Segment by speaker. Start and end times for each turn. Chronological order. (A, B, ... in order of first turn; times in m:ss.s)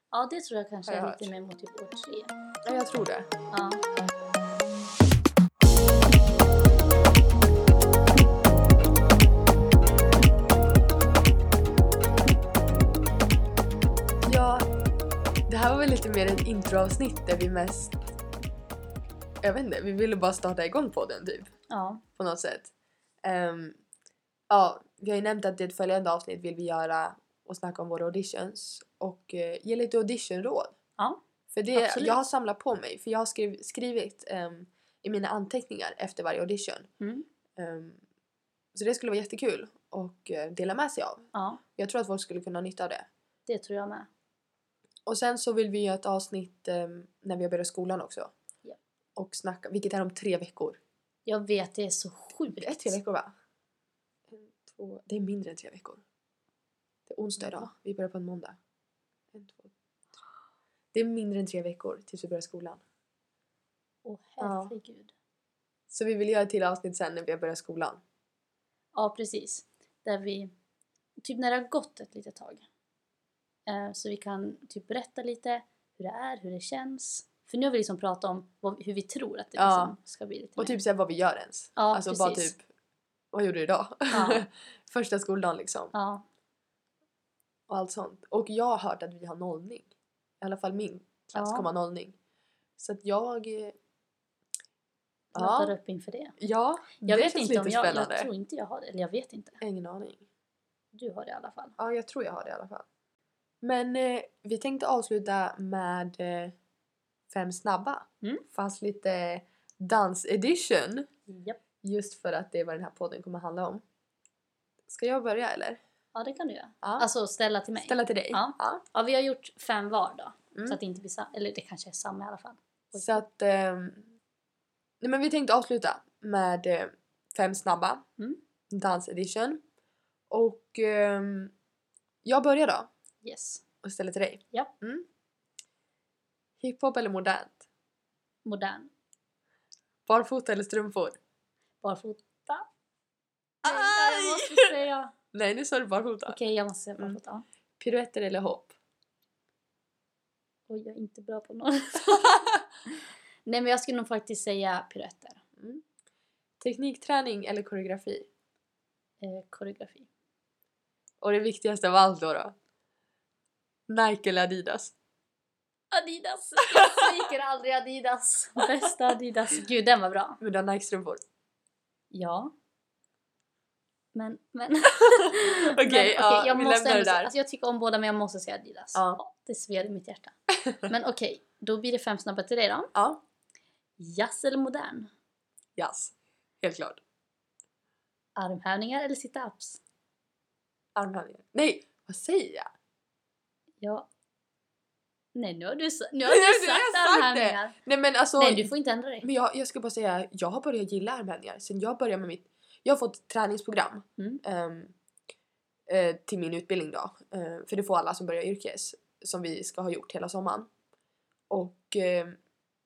0:00.1-0:02.3 A
0:00.9-0:01.3 B
0:02.6-0:03.3 B
0:03.5-0:03.8 A
0:14.2-0:14.7 B
0:15.5-0:18.0 B
0:19.4-0:21.5 B
0:21.7-0:22.0 A
0:22.2-0:22.7 B
0:23.2-0:23.8 B
0:24.5-0:30.8 B
0:31.5-0:36.9 B
0:31.8-0:32.2 A
0:37.0-0:37.3 A
0:37.6-0:38.0 B
0:38.7-0:43.1 B
0:41.3-0:41.6 A
0:43.5-0:44.1 A
0:45.1-0:48.3 B
0:49.2-0:50.8 B
0:51.3-0:53.0 A
0:52.6-0:53.3 B
0:54.3-0:56.0 B
0:57.1-0:58.6 B
0:59.3-0:59.7 B
1:00.9-1:02.8 B
1:04.0-1:05.1 A
1:04.4-1:04.8 B
1:05.9-1:08.0 B
1:09.0-1:10.5 A
1:11.2-1:12.6 A
1:13.7-1:20.8 A
1:19.6-1:20.0 B
1:20.6-1:22.6 B
1:21.8-1:22.5 A
1:23.3-1:25.9 B
1:24.1-1:24.5 A
1:25.9-1:26.2 A
1:27.7-1:29.9 B
1:30.4-1:32.2 B
1:31.4-1:31.7 A
1:32.8-1:33.8 B
1:35.3-1:36.4 A
1:35.4-1:35.8 B
1:36.4-1:38.3 B
1:37.0-1:39.6 A
1:39.6-1:40.3 B
1:40.9-1:41.8 A
1:41.8-1:42.8 B
1:43.6-1:46.6 B
1:47.3-1:51.1 B
1:51.3-1:51.6 A
1:51.8-1:53.8 B
1:54.9-1:55.8 B
1:56.2-2:03.2 A
1:57.8-1:58.8 B
2:00.5-2:00.8 B
2:03.0-2:04.1 B
2:05.0-2:08.0 B
2:08.7-2:09.6 B
2:10.3-2:11.5 B
2:12.2-2:12.9 B
2:13.2-2:13.6 A
2:13.8-2:15.1 B
2:16.6-2:17.6 B
2:18.4-2:18.9 A
2:20.1-2:21.2 B
2:21.8-2:22.7 A
2:23.6-2:25.1 A
2:23.6-2:24.7 B
2:25.3-2:26.4 B
2:26.3-2:27.4 A
2:27.8-2:28.7 B
2:30.7-2:32.6 A
2:33.4-2:35.4 A
2:35.6-2:35.8 B
2:36.6-2:38.3 B
2:39.2-2:40.1 A
2:41.2-2:42.5 B
2:43.9-2:44.9 B
2:45.9-2:50.4 A
2:50.4-2:51.2 B
2:52.1-2:52.5 A
2:54.1-3:02.9 A
2:55.0-2:57.3 B
2:58.9-2:59.2 B
3:02.9-3:03.2 B
3:04.0-3:05.1 A
3:05.8-3:07.0 B
3:08.4-3:09.8 A
3:11.0-3:12.7 B
3:13.8-3:14.1 A
3:15.3-3:17.8 A
3:16.2-3:18.7 B
3:18.4-3:19.3 A
3:19.2-3:24.9 B
3:25.9-3:30.7 B
3:31.5-3:32.4 B